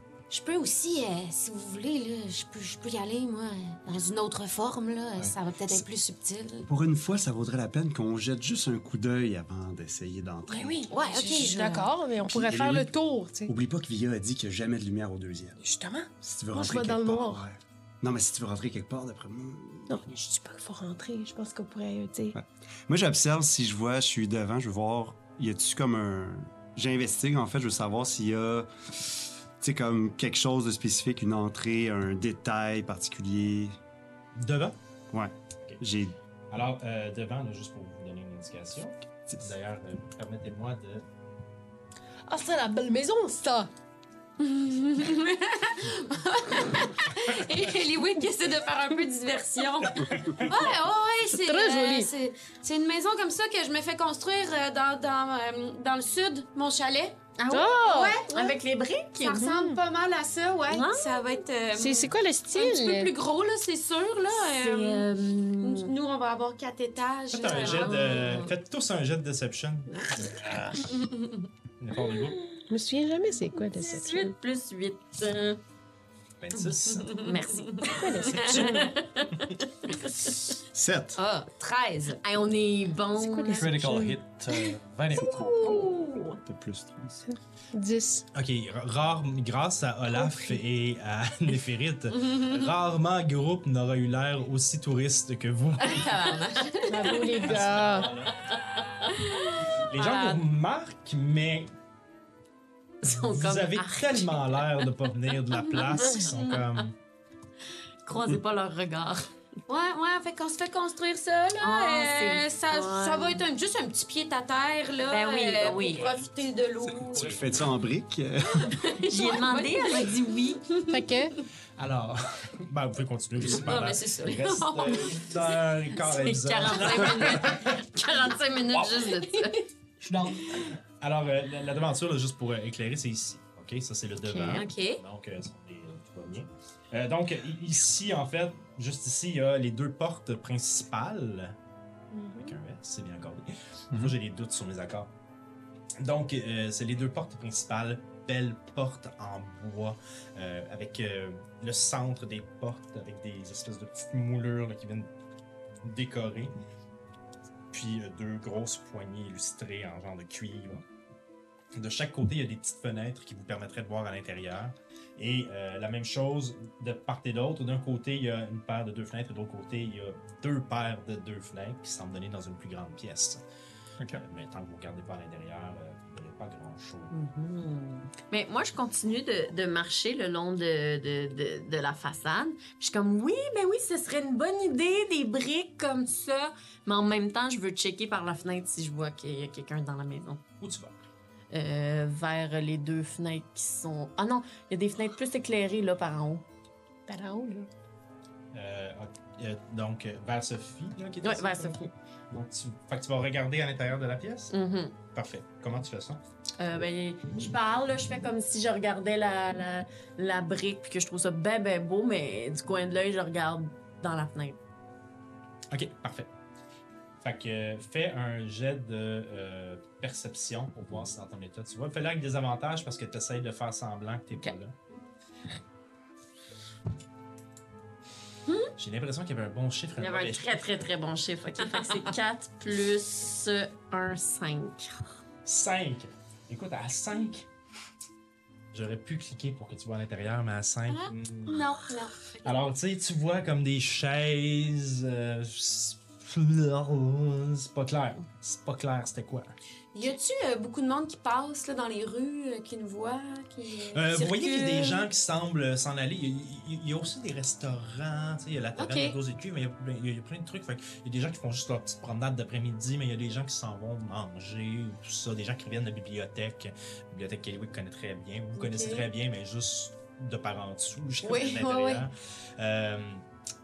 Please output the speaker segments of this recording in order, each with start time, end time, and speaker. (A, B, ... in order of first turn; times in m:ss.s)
0:00.3-0:06.7 A
0:06.6-0:10.8 B
0:10.5-0:13.5 C
0:10.9-0:11.9 A
0:12.2-0:12.9 B
0:13.4-0:15.6 B
0:15.6-0:17.4 C
0:16.2-0:20.1 B
0:19.9-0:22.4 C
0:22.3-0:28.7 B
0:29.6-0:33.8 B
0:34.4-0:34.8 D
0:35.1-0:36.2 B
0:36.5-0:41.0 D
0:42.3-0:43.7 C
0:44.4-0:57.3 A
0:51.4-0:52.1 C
0:57.4-0:59.5 E
0:57.5-0:58.2 C
0:57.8-0:58.6 A
0:59.2-1:05.1 A
0:59.4-0:59.8 C
1:00.7-1:01.2 E
1:01.7-1:03.1 C
1:04.3-1:05.9 E
1:05.6-1:08.5 A
1:07.3-1:10.1 D
1:07.5-1:08.1 E
1:09.9-1:10.4 E
1:10.2-1:10.8 F
1:10.9-1:11.4 A
1:11.8-1:12.4 D
1:12.7-1:14.3 C
1:13.6-1:15.6 E
1:16.4-1:17.2 D
1:17.1-1:18.1 A
1:17.2-1:19.4 E
1:17.9-1:18.9 C
1:18.4-1:18.8 D
1:20.7-1:21.2 B
1:21.1-1:22.2 A
1:22.2-1:23.7 E
1:23.1-1:24.2 C
1:23.6-1:25.5 F
1:25.6-1:26.3 E
1:26.4-1:27.2 B
1:27.7-1:28.2 C
1:28.3-1:36.3 D
1:32.3-1:32.5 A
1:35.8-1:37.5 A
1:36.8-1:38.1 C
1:37.4-1:38.5 D
1:39.1-1:40.4 A
1:39.8-1:41.7 D
1:43.0-1:44.6 E
1:43.2-1:46.9 D
1:48.0-1:49.3 E
1:49.7-1:57.4 A
1:51.6-1:53.4 E
1:55.1-1:56.2 E
1:57.1-1:58.8 B
1:58.6-2:01.4 A
1:58.9-2:00.6 E
2:00.9-2:01.4 C
2:01.8-2:07.6 D
2:03.4-2:05.4 A
2:06.0-2:09.6 E
2:10.0-2:10.6 F
2:11.0-2:21.6 D
2:14.2-2:14.6 E
2:14.5-2:15.0 A
2:22.1-2:22.5 C
2:22.4-2:25.1 D
2:26.0-2:35.1 D
2:35.8-2:36.5 D
2:37.7-2:40.8 D
2:41.7-2:53.4 D
2:54.0-2:54.2 F
2:54.2-2:57.1 D
2:57.1-3:10.4 E
3:10.6-3:10.9 D
3:11.5-3:16.4 E
3:17.1-3:17.7 C
3:18.5-3:24.5 D
3:21.2-3:21.9 E
3:24.5-3:25.0 E
3:25.1-3:26.2 D
3:26.6-3:34.6 E
3:35.7-3:36.3 D
3:37.2-3:44.7 D
3:48.8-3:50.8 D
3:50.0-3:55.1 E
3:51.7-3:52.1 A
3:55.4-3:57.4 D
3:58.7-4:01.7 D
4:00.9-4:02.6 A
4:02.4-4:09.5 D
4:09.9-4:15.0 A
4:13.9-4:33.2 D
4:18.8-4:19.2 A
4:28.6-4:29.1 A
4:31.2-4:32.1 A